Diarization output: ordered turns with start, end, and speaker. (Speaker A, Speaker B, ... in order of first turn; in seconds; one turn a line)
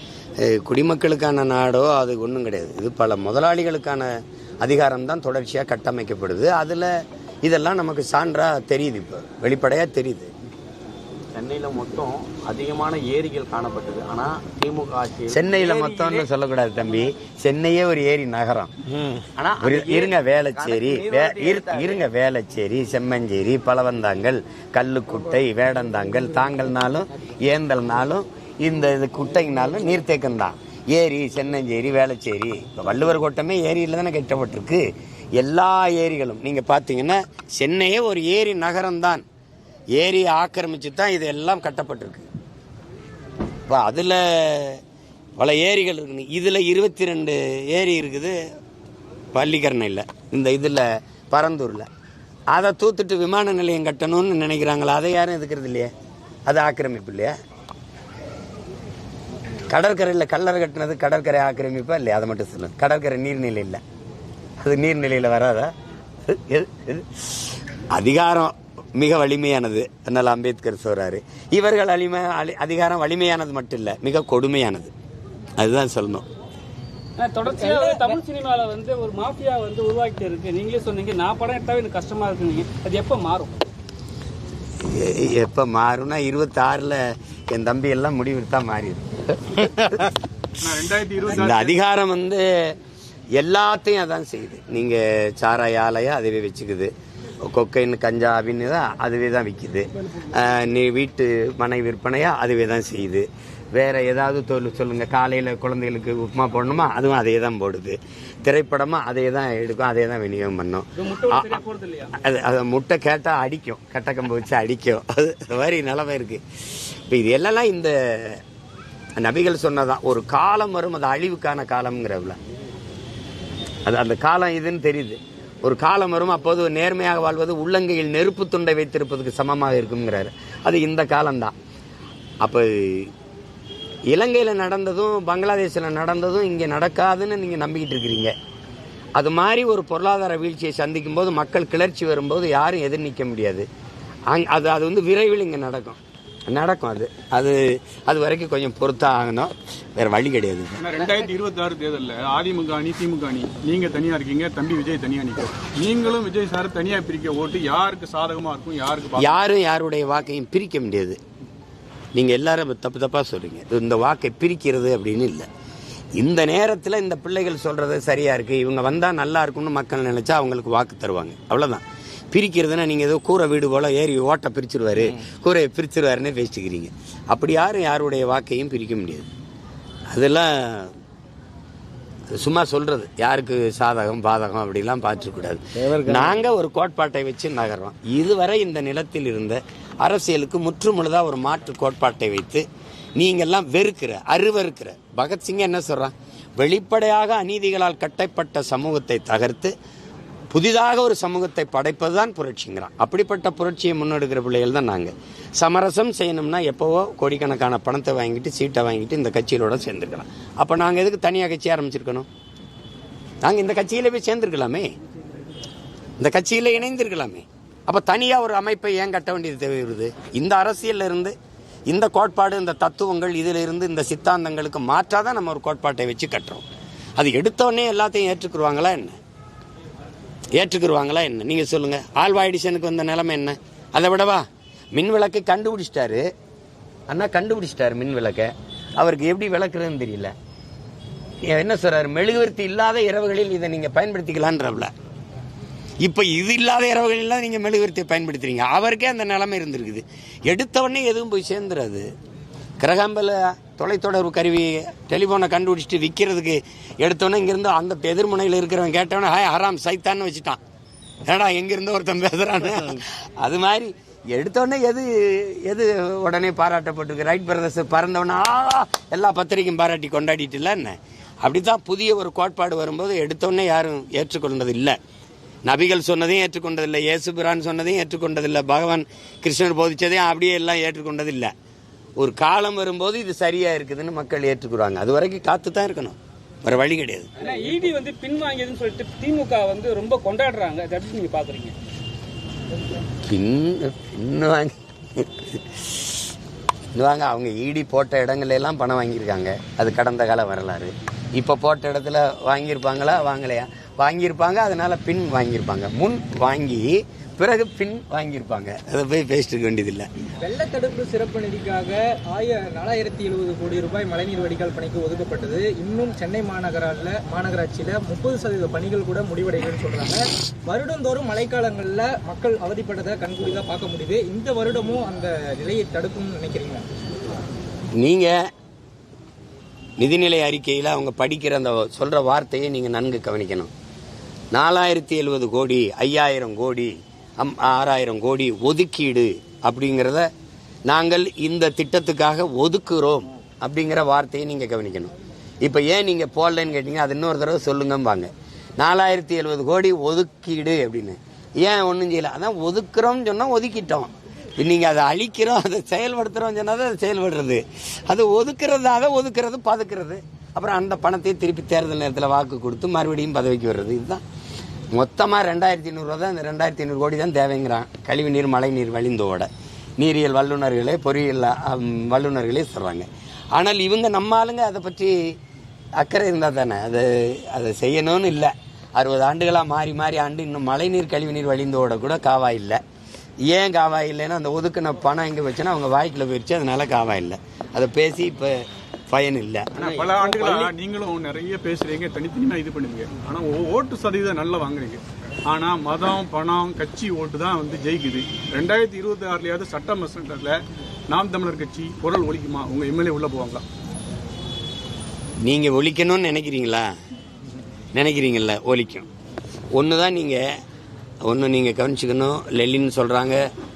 Speaker A: 0.4-6.9
Speaker A: 7.5-10.3
Speaker B: 11.3-16.3
Speaker A: 15.3-18.7
Speaker B: 19.2-22.0
Speaker A: 19.6-34.8
Speaker A: 35.4-39.2
Speaker A: 40.0-42.2
Speaker A: 43.7-44.8
Speaker A: 45.4-48.4
Speaker A: 49.3-51.9
Speaker A: 52.5-55.9
Speaker A: 56.5-57.3
Speaker A: 59.7-63.8
Speaker A: 64.6-65.7
Speaker A: 66.2-67.2
Speaker A: 67.9-74.9
Speaker A: 75.6-76.2
Speaker C: 77.2-83.6
Speaker D: 77.5-78.2
Speaker A: 84.8-90.1
Speaker E: 90.6-91.8
Speaker A: 91.3-92.7
Speaker A: 93.3-96.9
Speaker A: 97.4-111.6
Speaker C: 111.0-112.1
Speaker A: 112.1-116.4
Speaker A: 117.1-118.4
Speaker A: 119.2-122.4
Speaker A: 123.9-131.5
Speaker A: 132.4-133.1
Speaker A: 134.1-138.3
Speaker A: 139.2-143.7
Speaker A: 144.3-150.8
Speaker E: 150.8-159.4
Speaker A: 159.2-161.2
Speaker A: 162.2-165.5
Speaker A: 166.2-179.3
Speaker A: 180.1-180.9
Speaker A: 182.3-192.7
Speaker A: 193.2-199.7
Speaker A: 200.5-212.3
Speaker A: 213.4-214.9
Speaker A: 216.2-221.3
Speaker A: 221.9-226.7
Speaker A: 227.2-229.2
Speaker A: 230.6-236.3
Speaker A: 237.1-240.3
Speaker A: 241.4-244.9
Speaker A: 246.0-252.1
Speaker A: 252.8-260.6
Speaker A: 261.3-275.0
Speaker A: 275.6-281.5
Speaker A: 282.2-287.3
Speaker C: 287.4-291.7
Speaker A: 293.2-295.8
Speaker A: 296.9-310.1
Speaker D: 310.4-326.8
Speaker A: 328.0-328.3
Speaker A: 330.0-333.7
Speaker A: 334.5-340.3
Speaker A: 340.9-345.1
Speaker A: 345.6-364.2
Speaker A: 364.9-375.3
Speaker A: 376.0-382.8
Speaker A: 383.5-389.7
Speaker B: 389.8-390.7
Speaker E: 389.8-403.6
Speaker A: 405.4-406.9
Speaker A: 407.9-409.1
Speaker A: 409.8-410.4
Speaker A: 411.2-413.4